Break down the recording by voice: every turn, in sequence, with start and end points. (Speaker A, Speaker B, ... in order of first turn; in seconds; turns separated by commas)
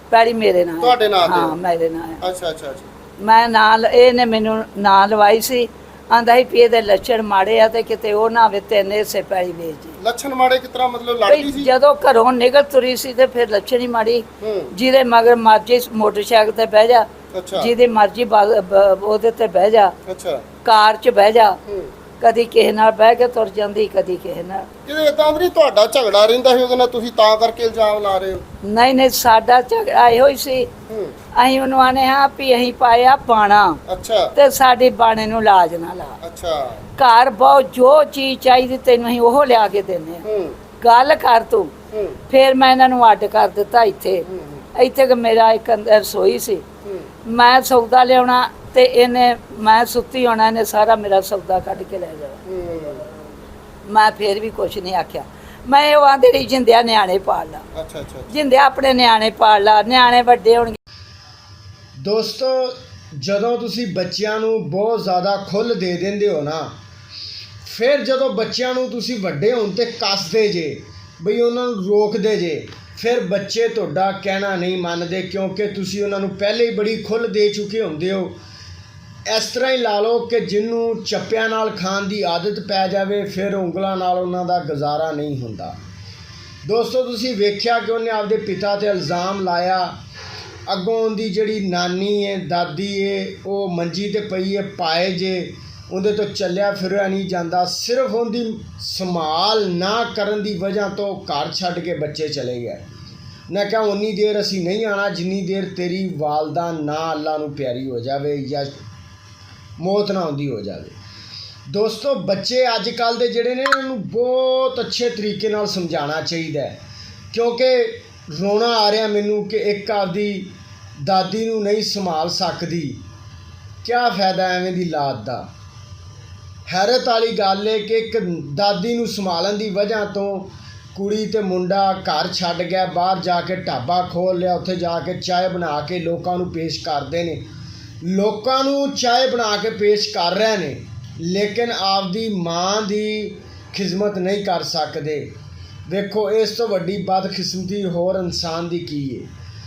Speaker A: 0.1-2.2, Speaker B: 0.8-1.6, Speaker B: 2.2-2.9, Speaker A: 3.2-10.0, Speaker B: 10.0-11.7, Speaker A: 11.3-19.9, Speaker B: 14.4-14.7, Speaker B: 17.3-17.7, Speaker B: 20.1-20.4, Speaker A: 20.6-21.6, Speaker B: 21.7-21.9, Speaker A: 22.2-24.7, Speaker B: 24.9-28.4, Speaker A: 28.6-30.7, Speaker B: 30.9-31.1, Speaker A: 31.4-33.8, Speaker B: 33.9-34.3, Speaker A: 34.3-36.2, Speaker B: 36.2-36.8, Speaker A: 37.0-40.2, Speaker B: 40.2-40.6, Speaker A: 40.8-41.7, Speaker B: 41.9-42.2, Speaker A: 42.3-46.6, Speaker B: 44.3-44.6, Speaker A: 47.2-52.4, Speaker B: 52.5-53.0, Speaker A: 53.9-57.6, Speaker B: 57.7-58.3, Speaker A: 58.3-60.8, Speaker C: 62.0-66.7, Speaker C: 67.6-78.4, Speaker C: 79.3-85.8, Speaker C: 86.6-89.9, Speaker C: 90.7-102.9, Speaker C: 103.5-108.8, Speaker C: 109.8-111.0, Speaker C: 111.7-116.8, Speaker C: 117.3-123.0, Speaker C: 123.8-125.5, Speaker C: 126.7-137.5, Speaker C: 138.0-145.3, Speaker C: 145.9-149.3